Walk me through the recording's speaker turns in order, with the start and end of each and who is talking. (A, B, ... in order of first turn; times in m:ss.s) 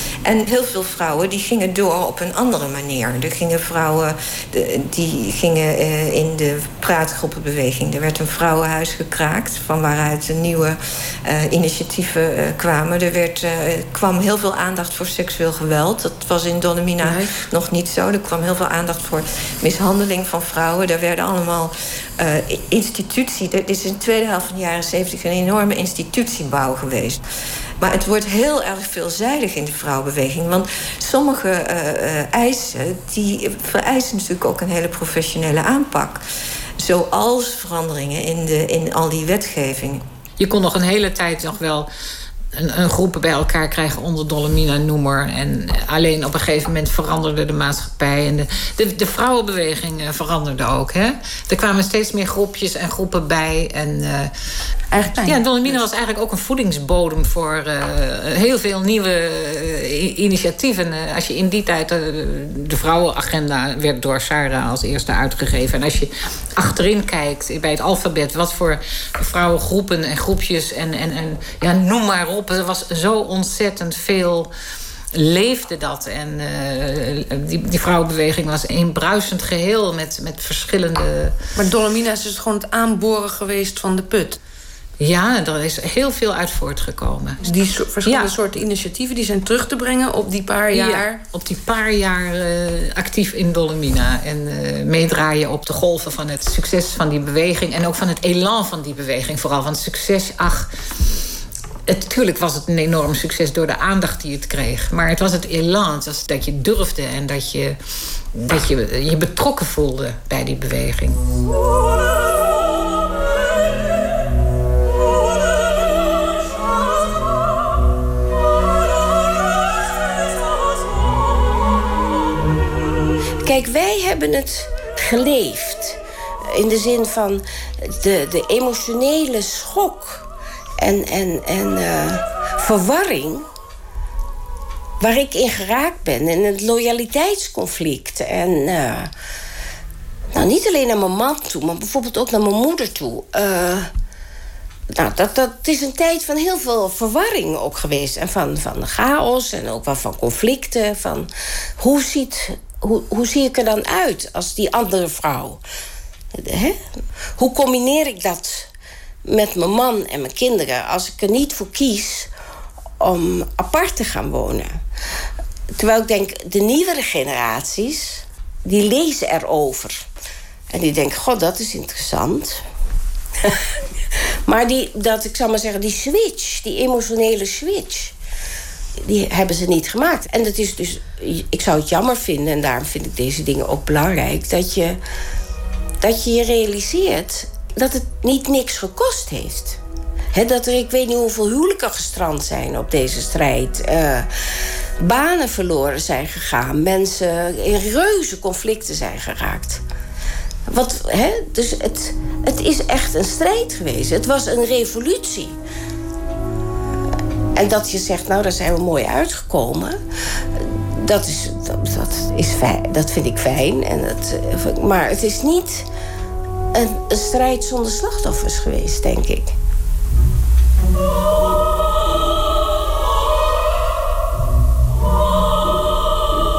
0:00.2-0:27.2 A
0:17.0-0:17.3 B
0:27.8-0:36.2 A
0:36.8-0:40.0 A
0:40.4-0:41.9 C
0:42.5-0:54.3 C
0:54.9-0:55.8 B
0:55.1-1:14.5 C
1:15.1-1:21.4 C
1:21.6-1:24.4 B
1:25.0-1:27.4 C
1:27.4-1:31.2 B
1:28.0-1:28.3 C
1:30.7-1:40.7 C
1:41.9-1:47.8 C
1:48.4-1:51.2 C
2:03.4-2:06.0 D
2:06.5-2:10.2 D
2:10.8-2:13.5 D
2:15.0-2:19.1 D
2:20.3-2:23.9 D
2:24.9-2:35.6 D
2:36.3-2:36.8 D
2:37.4-2:38.7 D
2:39.2-2:42.3 D
2:43.0-2:44.8 D
2:45.8-2:50.0 D
2:50.7-2:52.6 D
2:54.5-2:58.2 D
2:59.0-3:05.0 D
3:06.0-3:09.8 D
3:10.3-3:14.3 D
3:15.0-3:19.8 D
3:20.7-3:25.6 D
3:27.6-3:30.0 D
3:30.5-3:35.9 D
3:36.7-3:39.5 D